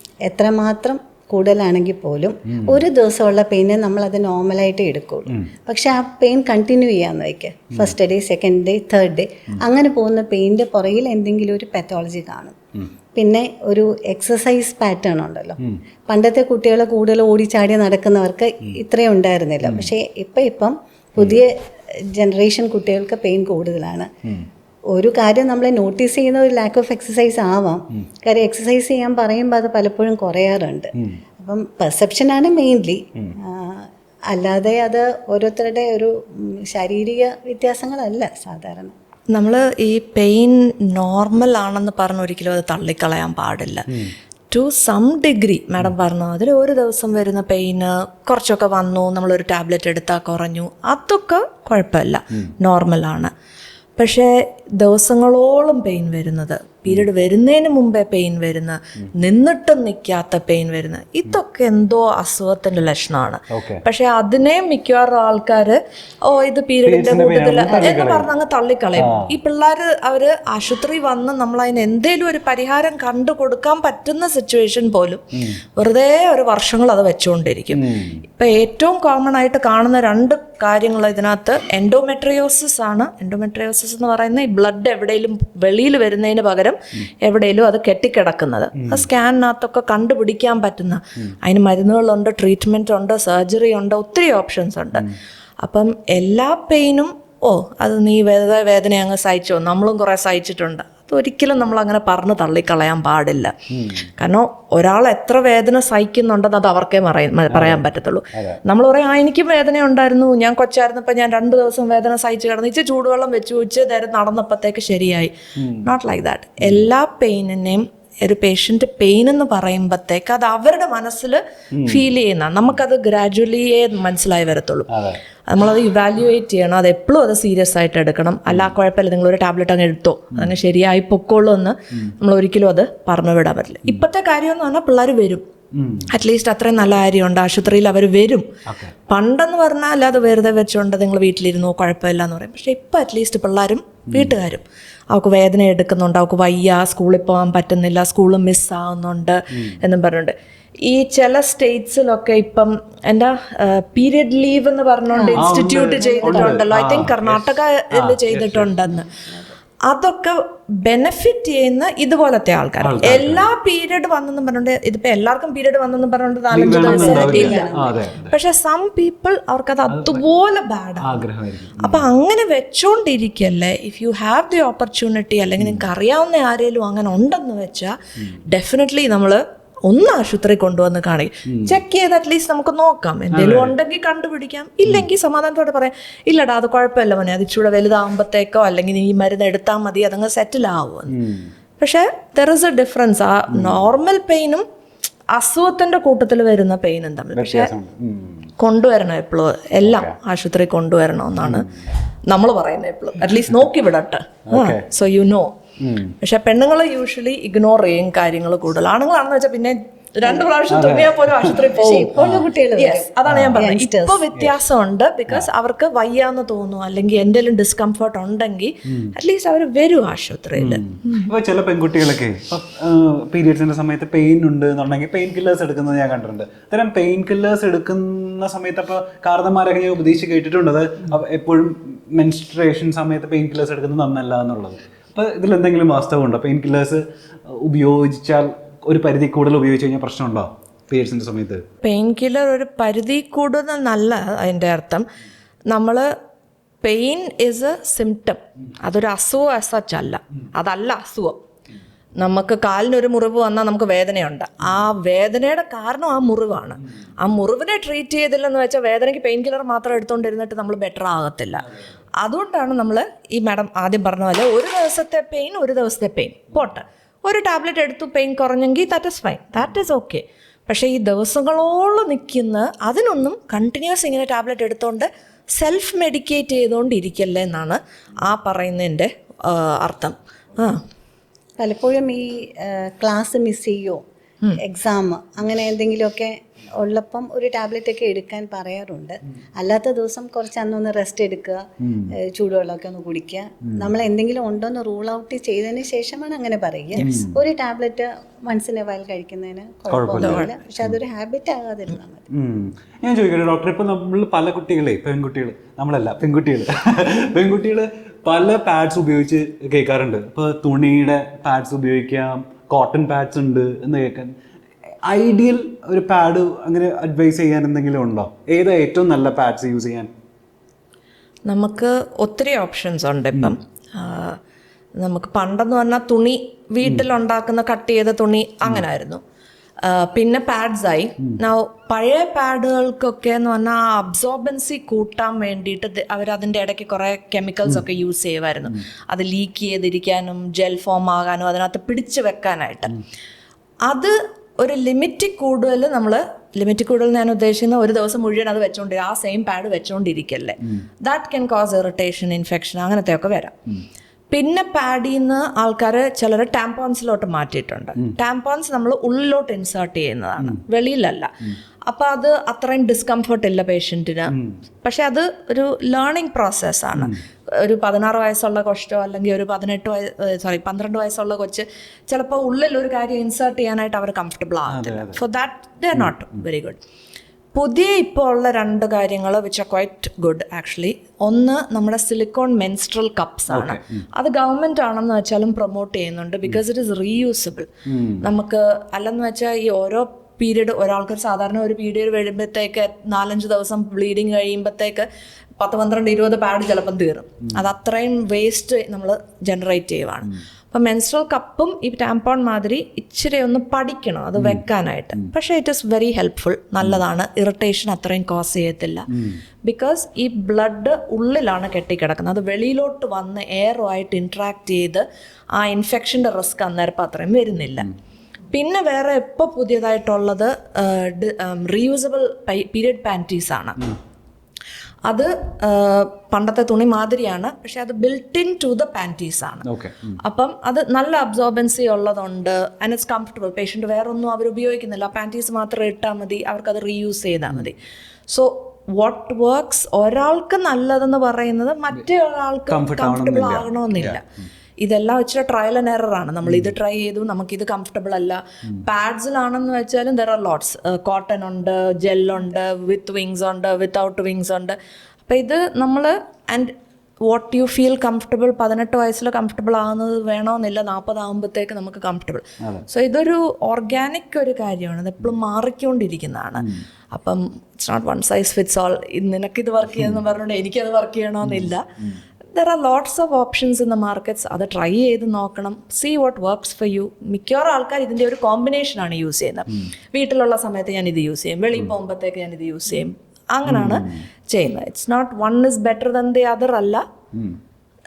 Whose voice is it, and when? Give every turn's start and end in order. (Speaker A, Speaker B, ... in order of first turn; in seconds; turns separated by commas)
Speaker A: 0.3-12.6, Speaker B: 2.5-2.8, Speaker A: 13.2-21.5, Speaker B: 19.6-19.9, Speaker A: 22.1-24.1, Speaker A: 24.9-38.9, Speaker C: 39.3-43.9, Speaker C: 44.5-53.3, Speaker C: 54.0-75.2, Speaker B: 63.5-63.8, Speaker B: 66.9-68.3, Speaker B: 69.0-69.4, Speaker C: 75.8-95.1, Speaker B: 77.7-78.2, Speaker B: 88.8-89.1, Speaker C: 95.6-103.5, Speaker B: 103.7-104.1, Speaker C: 104.2-124.9, Speaker B: 107.5-108.6, Speaker B: 115.6-115.9, Speaker B: 116.6-116.9, Speaker B: 121.8-122.1, Speaker B: 124.9-125.2, Speaker C: 125.5-135.4, Speaker B: 128.5-128.8, Speaker B: 135.8-136.1, Speaker C: 136.1-138.5, Speaker B: 138.7-138.9, Speaker C: 139.1-159.1, Speaker B: 144.1-144.4, Speaker A: 155.1-155.5, Speaker B: 155.3-158.7, Speaker A: 156.0-156.6, Speaker A: 159.1-159.5, Speaker C: 159.9-167.7, Speaker B: 162.8-163.5, Speaker B: 166.5-168.4, Speaker A: 166.6-167.9, Speaker C: 168.3-171.3, Speaker B: 169.9-170.2, Speaker B: 171.0-172.1, Speaker C: 171.8-177.9, Speaker B: 175.6-175.9, Speaker C: 178.5-191.2, Speaker B: 181.5-181.8, Speaker B: 183.3-183.7, Speaker B: 191.1-191.5, Speaker C: 191.8-194.6, Speaker B: 193.5-193.9, Speaker C: 195.3-197.7, Speaker B: 197.4-198.5, Speaker C: 198.6-201.7, Speaker B: 199.8-200.2, Speaker B: 201.4-201.8, Speaker C: 202.3-205.5, Speaker B: 204.5-204.9, Speaker B: 205.8-206.2, Speaker C: 206.2-221.2, Speaker A: 210.2-210.5, Speaker B: 210.7-212.5, Speaker A: 211.8-214.3, Speaker B: 213.3-213.7, Speaker B: 220.6-241.6, Speaker C: 241.8-245.1, Speaker C: 245.7-246.1, Speaker C: 246.8-251.4, Speaker C: 252.2-261.7, Speaker C: 262.2-280.8, Speaker A: 281.6-284.0, Speaker A: 284.6-302.3, Speaker B: 291.8-292.1, Speaker B: 293.7-293.9, Speaker B: 297.0-297.4, Speaker B: 299.9-301.0, Speaker C: 300.2-300.5, Speaker B: 302.3-314.4, Speaker B: 315.1-320.1, Speaker C: 321.5-324.4, Speaker C: 325.0-329.2, Speaker C: 329.8-343.0, Speaker C: 343.9-353.6, Speaker C: 354.3-376.8, Speaker B: 374.7-375.2, Speaker C: 377.5-387.7, Speaker B: 383.5-384.1, Speaker B: 387.9-388.2, Speaker C: 388.2-395.1, Speaker C: 395.6-409.1, Speaker B: 404.4-404.6, Speaker B: 409.1-409.4, Speaker C: 409.6-417.9, Speaker C: 418.5-423.9, Speaker C: 425.1-429.7, Speaker B: 429.7-430.2, Speaker C: 430.2-437.8, Speaker C: 438.3-444.2, Speaker B: 442.7-444.2, Speaker C: 444.8-454.8, Speaker B: 446.5-446.7, Speaker C: 455.3-456.8, Speaker C: 457.3-471.8, Speaker B: 471.4-472.2, Speaker C: 472.5-487.0, Speaker B: 483.7-484.2